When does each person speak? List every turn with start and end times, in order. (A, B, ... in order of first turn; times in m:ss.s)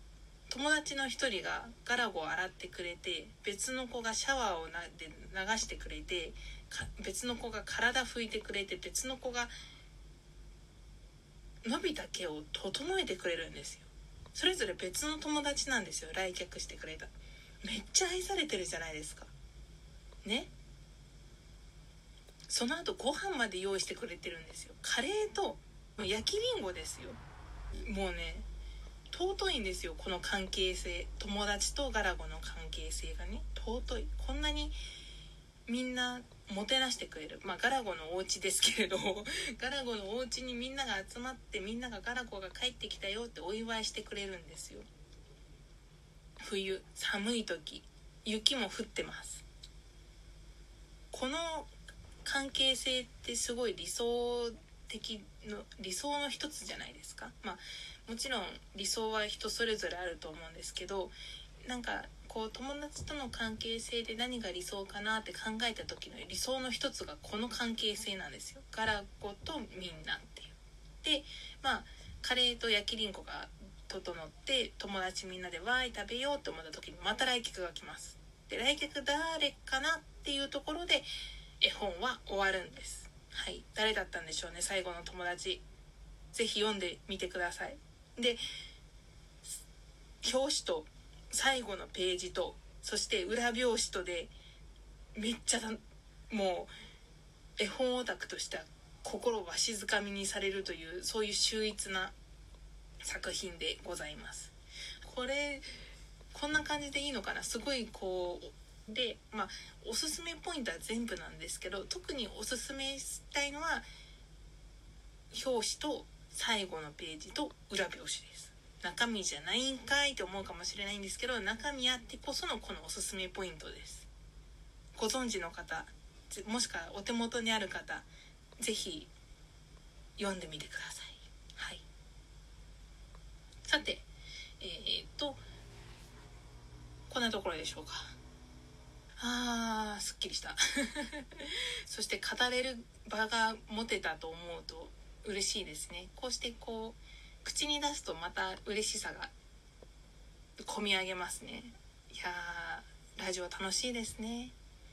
0:00.5-0:09.5 A
0:11.6-0:17.1 A
0:17.6-0:19.3 A
0:20.2-0:20.5 A
0:22.5-0:27.2 A
0:27.8-0:28.5 A
0:29.1-0:34.8 A
0:35.7-0:44.8 A
0:46.4-0:49.4 A
0:51.1-0:51.7 A
0:52.2-1:21.1 A
1:21.6-1:25.6 A
1:26.3-1:28.4 A
1:30.2-1:34.3 A
1:35.2-1:36.7 A
1:37.6-1:42.1 A
1:43.0-1:45.6 A
1:46.3-1:53.9 A
1:55.3-2:04.1 A
2:05.0-2:08.1 A
2:08.6-2:09.1 A
2:10.2-2:11.8 A
2:13.7-2:14.0 A
2:14.6-2:15.4 A
2:17.1-2:18.2 A
2:19.2-2:29.3 A
2:30.6-2:34.5 A